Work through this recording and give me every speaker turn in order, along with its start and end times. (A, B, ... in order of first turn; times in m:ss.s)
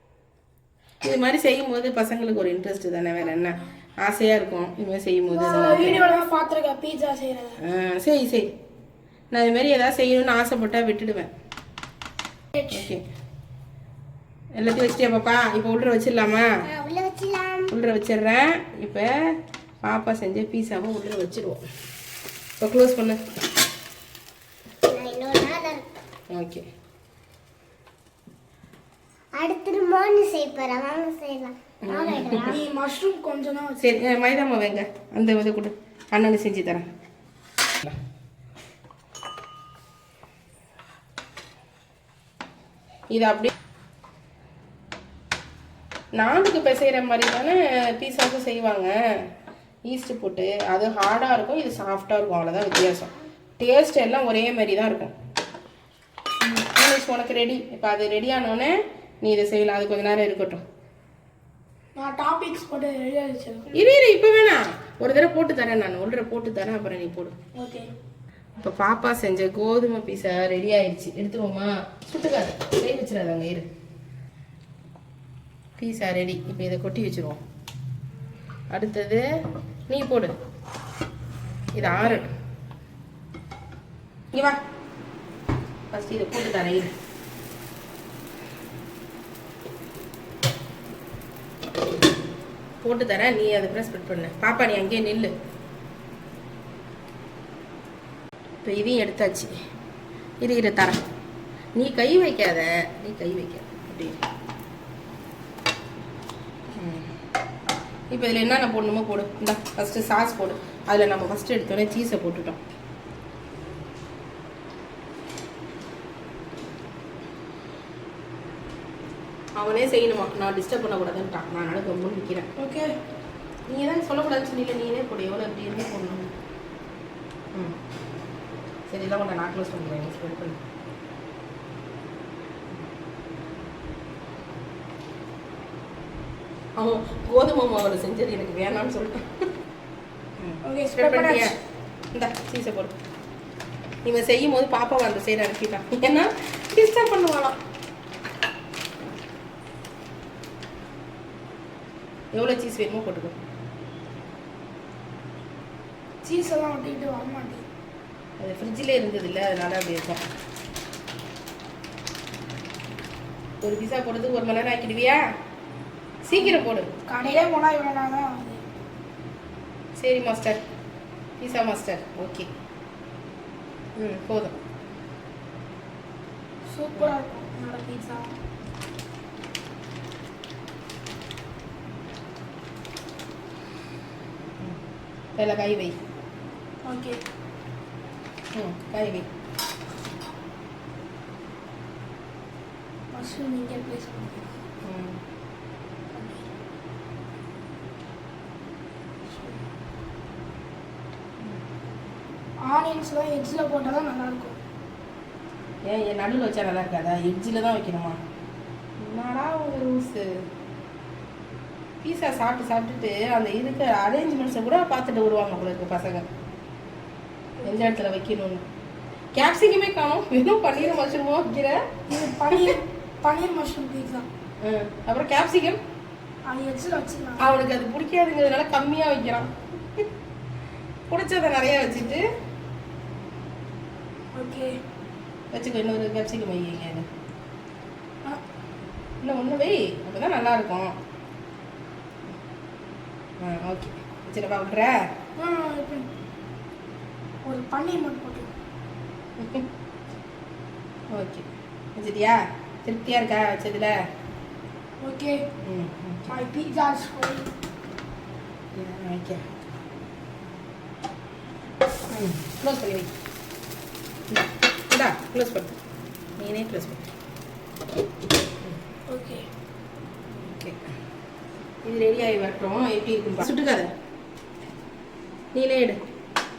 0:01.0-0:06.0 A
0:05.3-0:06.0 B
0:05.5-0:07.6 C
0:07.6-0:08.5 A
0:09.3-0:11.3 A
0:12.7-0:13.0 A
0:14.6-0:16.5 A
0:16.7-0:17.7 B
0:17.7-0:19.1 A
0:19.8-0:21.6 A
0:22.6-0:23.2 A
0:24.9-0:26.0 B
0:26.3-0:26.7 A
0:29.4-0:32.6 B
0:31.8-0:32.6 A
0:32.4-0:33.8 C
0:33.8-0:36.9 A
0:43.1-0:43.5 A
0:46.2-0:49.3 A
0:49.9-0:55.1 A
0:56.4-1:00.6 A
1:02.0-1:03.8 C
1:03.7-1:07.4 A
1:07.6-1:07.9 C
1:08.6-1:13.7 A
1:15.8-1:17.4 A
1:18.7-1:19.2 A
1:19.9-1:20.3 A
1:21.7-1:22.3 A
1:25.9-1:26.9 A
1:32.8-1:35.3 A
1:38.6-1:39.5 A
1:40.4-1:41.0 A
1:41.8-1:44.2 A
1:46.8-1:47.1 A
1:48.1-1:52.6 A
1:59.6-2:02.5 A
2:02.6-2:03.0 C
2:03.7-2:06.3 A
2:08.9-2:10.6 A
2:16.8-2:19.3 A
2:20.4-2:21.6 A
2:20.6-2:21.6 C
2:22.1-2:22.9 A
2:24.0-2:27.6 A
2:32.3-2:33.4 A
2:36.2-2:37.6 C
2:38.4-2:40.2 A
2:43.6-2:45.2 A
2:46.3-2:48.6 C
2:46.3-2:46.9 A
2:50.0-2:50.6 A
2:51.4-2:52.5 A
2:54.0-2:54.6 A
2:56.7-2:58.4 C
3:05.4-3:06.0 A
3:06.8-3:07.2 C
3:08.5-3:09.3 A
3:13.1-3:14.5 C
3:14.8-3:15.2 A
3:16.1-3:16.4 C
3:19.3-3:19.6 C
3:22.6-3:24.6 C
3:25.8-3:28.2 A
3:29.0-3:30.4 A
3:32.0-3:36.3 A
3:37.6-3:38.6 A
3:39.4-3:41.8 A
3:42.1-3:44.3 C
3:42.5-3:42.8 A
3:44.6-3:45.8 A
3:46.4-3:47.5 C
3:47.4-3:50.0 A
3:51.1-3:52.2 A
3:54.3-3:54.8 C
3:55.5-3:57.1 A
3:59.2-4:01.0 A
4:03.4-4:05.0 A
4:05.4-4:06.1 C
4:07.4-4:08.5 C
4:09.4-4:09.7 A
4:11.1-4:14.0 A
4:15.0-4:15.4 C
4:15.6-4:16.4 A
4:16.3-4:17.5 C
4:18.8-4:19.4 A
4:22.1-4:23.1 A
4:24.3-4:25.7 A
4:26.4-4:27.1 A
4:29.1-4:29.5 C
4:30.4-4:30.8 A
4:31.8-4:33.9 A
4:35.6-4:36.0 A